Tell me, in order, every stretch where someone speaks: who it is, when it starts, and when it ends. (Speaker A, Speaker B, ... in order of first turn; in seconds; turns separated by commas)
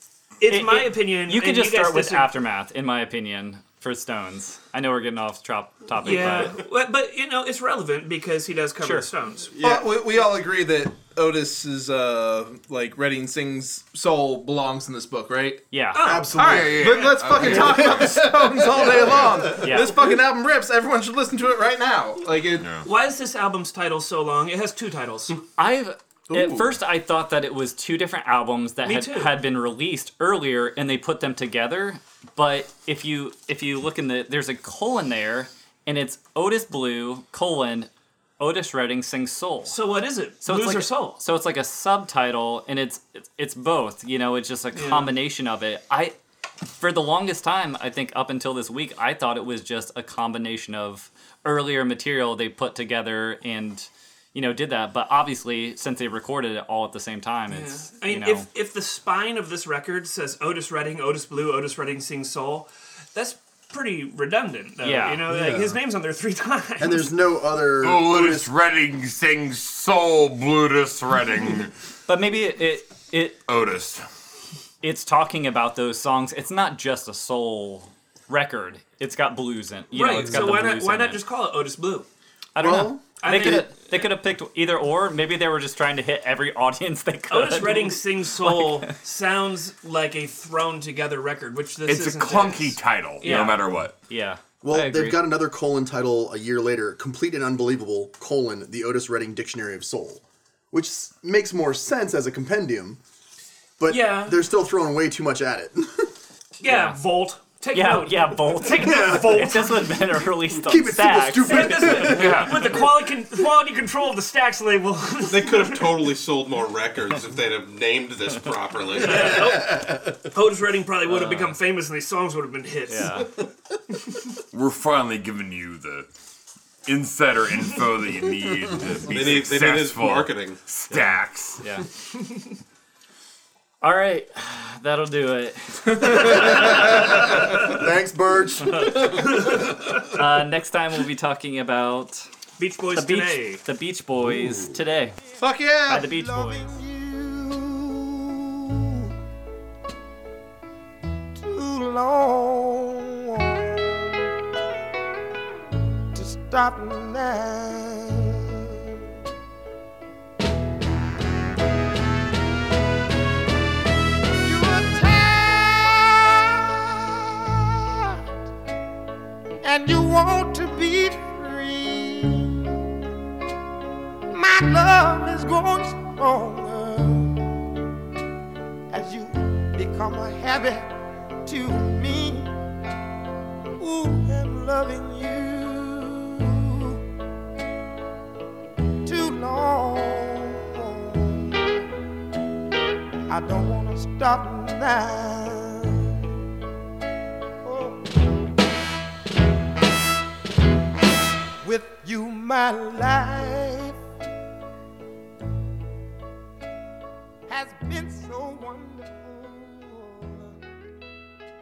Speaker A: 0.4-2.3, Speaker B: 0.5-6.5, Speaker A: 6.0-9.6, Speaker B: 8.8-9.1, Speaker C: 9.5-15.6, Speaker B: 15.7-16.1, Speaker A: 15.9-17.5, Speaker D: 16.0-16.9, Speaker C: 16.3-22.7, Speaker E: 16.4-19.5, Speaker D: 17.4-18.1, Speaker D: 18.7-19.6, Speaker B: 19.6-19.9, Speaker E: 22.6-22.9, Speaker A: 22.8-25.4, Speaker B: 25.6-39.8, Speaker C: 26.3-26.8, Speaker A: 28.8-29.3, Speaker A: 39.6-41.2, Speaker B: 40.4-46.1, Speaker A: 44.7-45.1, Speaker B: 46.7-58.5, Speaker A: 57.5-67.1, Speaker B: 64.8-65.2, Speaker D: 65.3-65.8, Speaker D: 66.8-68.5, Speaker E: 67.8-71.7, Speaker B: 72.1-73.4, Speaker E: 73.5-74.0, Speaker B: 74.8-81.2, Speaker A: 79.9-82.0, Speaker B: 82.5-88.9, Speaker D: 82.6-83.7, Speaker A: 83.2-84.1, Speaker A: 87.3-93.7, Speaker E: 91.8-93.9, Speaker B: 93.2-95.2, Speaker D: 94.6-103.0, Speaker D: 103.8-106.1, Speaker A: 103.9-104.4, Speaker A: 106.6-110.0, Speaker B: 106.6-107.0, Speaker B: 107.7-112.3, Speaker D: 108.8-109.4, Speaker D: 110.6-112.4, Speaker A: 111.4-116.1, Speaker E: 112.1-112.7, Speaker F: 115.3-119.4, Speaker A: 119.0-123.4, Speaker B: 121.0-121.6, Speaker B: 122.9-123.3, Speaker E: 124.5-126.1, Speaker E: 126.8-131.6, Speaker F: 129.2-130.6, Speaker B: 130.9-131.9, Speaker B: 133.8-136.6, Speaker D: 136.2-139.1, Speaker B: 138.7-139.1, Speaker A: 138.9-140.1, Speaker B: 140.0-142.3, Speaker A: 142.6-143.6, Speaker B: 142.9-145.2, Speaker C: 145.4-146.1, Speaker B: 145.9-146.7, Speaker G: 145.9-149.1, Speaker G: 151.3-154.3, Speaker G: 156.1-158.8, Speaker G: 164.4-168.2, Speaker G: 169.6-172.8, Speaker G: 174.3-177.4, Speaker G: 178.9-180.9, Speaker G: 181.4-182.5, Speaker G: 183.8-187.0, Speaker G: 189.0-191.8, Speaker G: 193.3-196.1, Speaker G: 197.6-198.3, Speaker G: 201.6-204.0, Speaker G: 207.5-210.6